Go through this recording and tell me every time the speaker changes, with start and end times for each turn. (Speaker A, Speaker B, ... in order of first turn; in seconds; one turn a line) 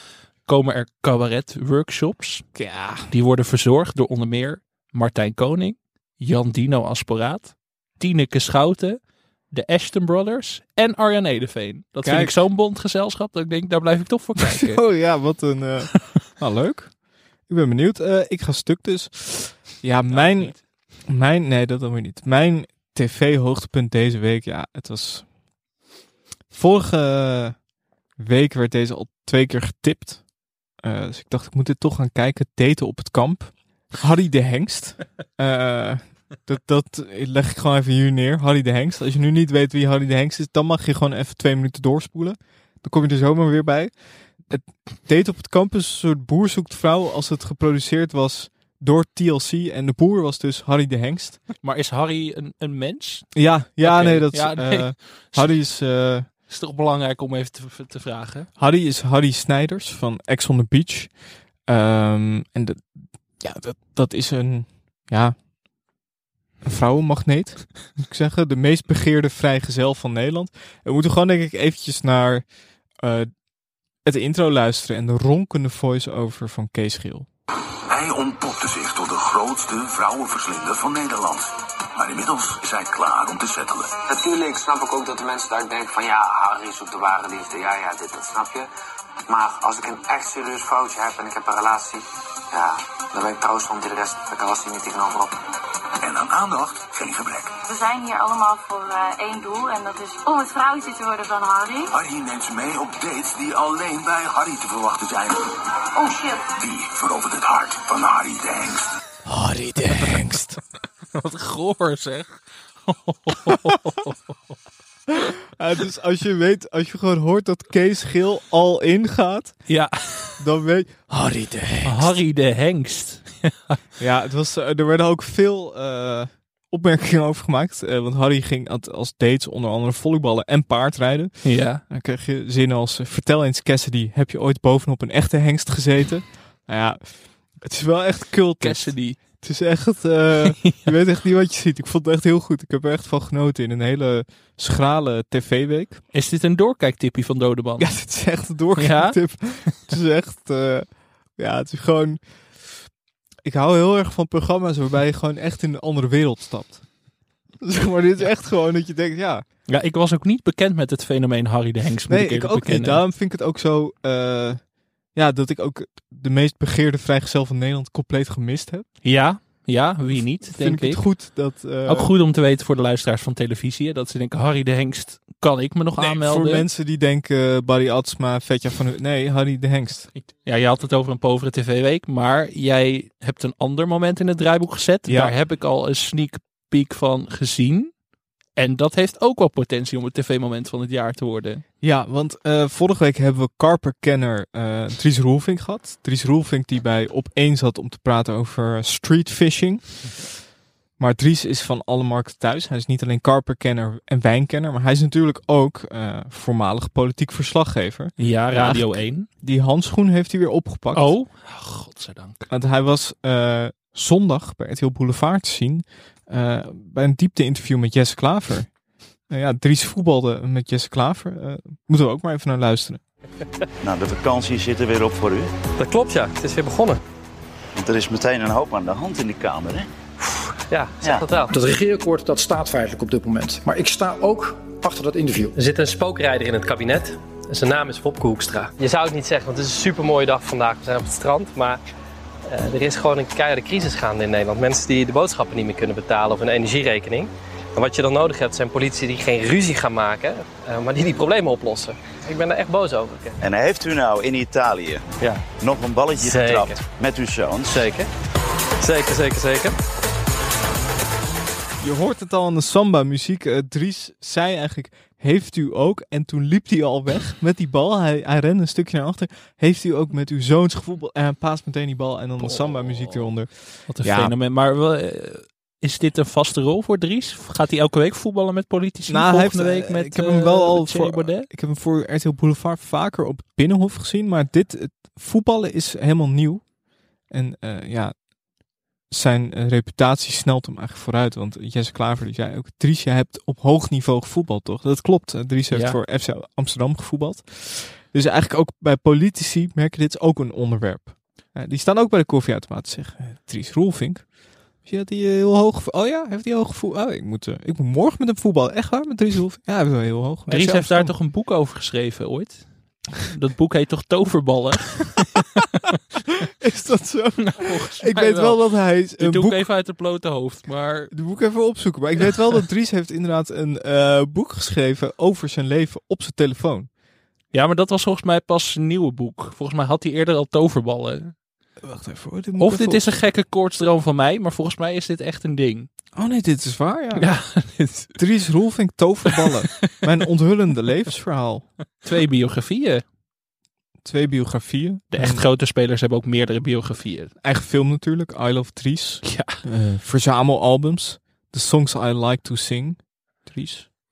Speaker A: 0.5-2.5
Speaker B: 2.5-3.1
Speaker A: 3.1-9.0
Speaker A: 9.5-14.8
Speaker B: 12.0-12.4
Speaker B: 14.4-16.9
Speaker B: 17.5-25.3
Speaker A: 20.1-20.6
Speaker B: 26.5-27.6
Speaker B: 28.2-30.2
Speaker B: 30.8-43.9
Speaker B: 44.5-51.4
Speaker A: 51.6-55.6
Speaker B: 53.4-56.3
Speaker A: 56.5-58.5
Speaker B: 58.6-61.1
Speaker B: 61.7-62.9
Speaker B: 63.4-65.3
Speaker B: 66.6-72.5
Speaker B: 73.0-73.3
Speaker B: 74.0-77.3
Speaker C: 77.9-84.0
Speaker D: 84.1-88.7
Speaker D: 89.3-95.4
Speaker C: 96.0-97.6
Speaker E: 97.7-101.9
Speaker C: 101.9-105.6
Speaker E: 106.0-106.5
Speaker C: 106.5-108.9
Speaker B: 109.3-110.6
Speaker A: 111.1-114.4
Speaker B: 115.1-119.6
Speaker A: 119.7-120.4
Speaker B: 120.4-122.2
Speaker A: 121.8-123.8
Speaker B: 124.0-131.3
Speaker A: 131.4-131.8
Speaker B: 131.9-146.0
Speaker A: 138.6-139.2
Speaker A: 140.4-140.9
Speaker A: 146.1-147.9
Speaker B: 147.8-152.2
Speaker A: 148.8-149.7
Speaker B: 153.4-156.9
Speaker B: 157.6-159.4
Speaker A: 159.7-163.0
Speaker B: 162.1-168.9
Speaker A: 169.0-171.1
Speaker B: 170.5-172.1
Speaker A: 171.8-176.7
Speaker B: 176.0-180.1
Speaker A: 180.2-187.9
Speaker B: 185.1-185.3
Speaker A: 188.6-191.6
Speaker B: 191.8-200.2
Speaker B: 201.0-211.2
Speaker A: 208.2-209.3
Speaker A: 210.9-212.5
Speaker B: 212.5-218.7
Speaker B: 219.3-223.0
Speaker F: 223.8-225.5
Speaker G: 225.8-227.0
Speaker F: 227.8-229.9
Speaker G: 230.7-231.5
Speaker H: 231.5-235.5
Speaker G: 235.6-241.8
Speaker G: 242.5-253.4
Speaker F: 253.4-257.8
Speaker G: 256.2-256.8
Speaker G: 257.7-258.1
Speaker G: 258.8-259.8
Speaker B: 261.8-274.3
Speaker A: 272.4-273.3
Speaker A: 273.9-281.5
Speaker B: 279.1-286.7
Speaker B: 287.3-288.1
Speaker B: 289.1-304.3
Speaker A: 295.7-296.0
Speaker B: 304.8-311.1
Speaker A: 310.5-312.6
Speaker A: 313.2-315.4
Speaker B: 316.6-319.6
Speaker A: 317.4-318.6
Speaker A: 319.2-321.1
Speaker B: 321.1-326.9
Speaker A: 327.5-331.4
Speaker B: 331.8-333.1
Speaker A: 332.6-335.9
Speaker B: 336.2-337.3
Speaker A: 337.1-338.2
Speaker B: 338.2-341.7
Speaker A: 339.3-339.6
Speaker A: 342.0-343.0
Speaker B: 344.0-345.4
Speaker A: 345.1-347.3
Speaker B: 347.4-353.9
Speaker A: 349.2-349.6